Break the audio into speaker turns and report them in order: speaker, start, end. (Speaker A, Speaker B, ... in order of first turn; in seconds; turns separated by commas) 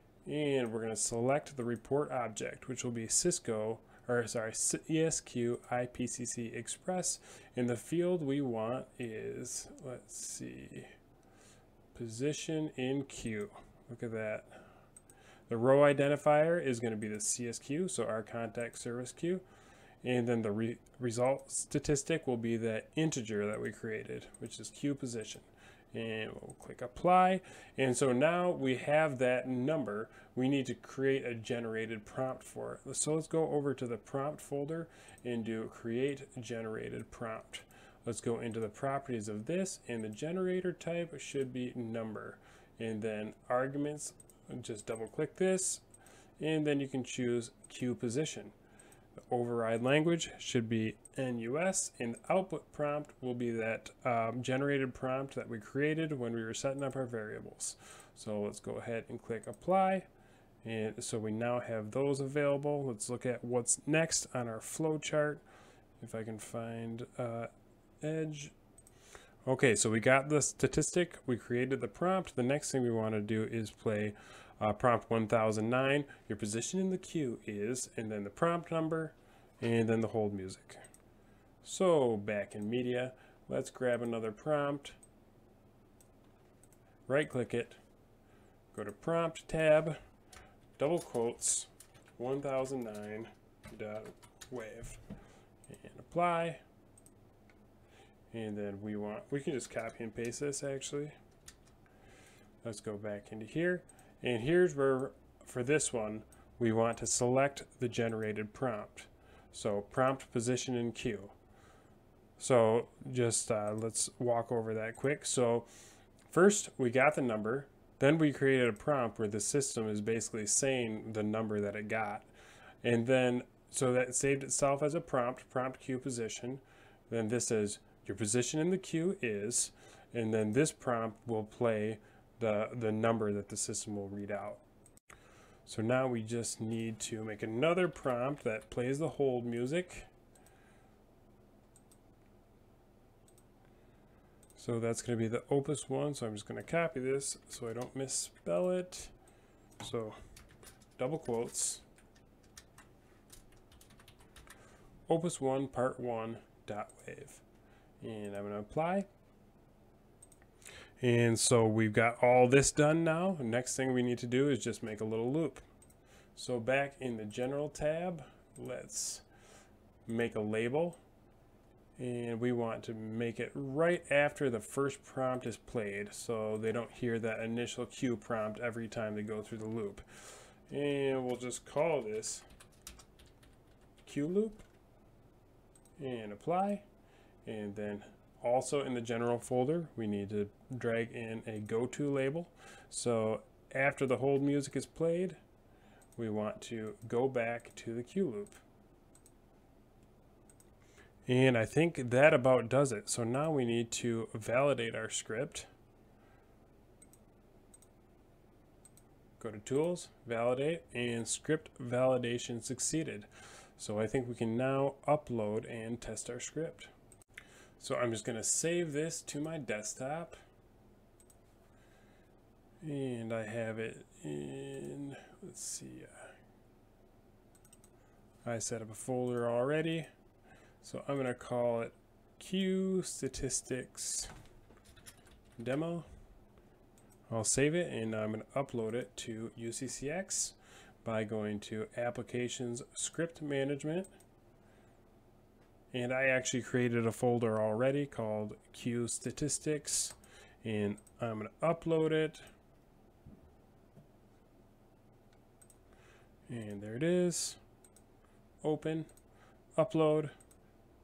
Speaker A: 0.2-10.9, Speaker A: 11.9-14.6, Speaker A: 15.5-19.4, Speaker A: 20.0-45.8, Speaker A: 46.4-48.5, Speaker A: 49.3-60.1, Speaker A: 60.6-65.4, Speaker A: 66.0-67.5, Speaker A: 68.0-68.5, Speaker A: 69.5-80.8, Speaker A: 81.6-85.0, Speaker A: 87.1-87.8, Speaker A: 88.7-90.0, Speaker A: 90.8-95.0, Speaker A: 95.7-96.6, Speaker A: 98.3-101.2, Speaker A: 102.6-111.3, Speaker A: 112.4-115.7, Speaker A: 116.3-122.3, Speaker A: 122.8-134.6, Speaker A: 135.7-140.1, Speaker A: 144.6-149.1, Speaker A: 149.8-150.2, Speaker A: 151.0-151.8, Speaker A: 155.1-157.4, Speaker A: 158.0-159.1, Speaker A: 161.0-165.6, Speaker A: 166.3-169.2, Speaker A: 170.1-171.0, Speaker A: 172.0-182.5, Speaker A: 184.0-184.7, Speaker A: 186.0-186.9, Speaker A: 187.4-195.4, Speaker A: 196.2-198.6, Speaker A: 201.3-205.7, Speaker A: 209.4-216.9, Speaker A: 217.8-220.4, Speaker A: 222.8-226.3, Speaker A: 228.4-230.1, Speaker A: 230.8-234.3, Speaker A: 235.6-236.1, Speaker A: 237.3-244.1, Speaker A: 245.9-252.4, Speaker A: 256.5-257.6, Speaker A: 258.6-259.1, Speaker A: 259.8-260.3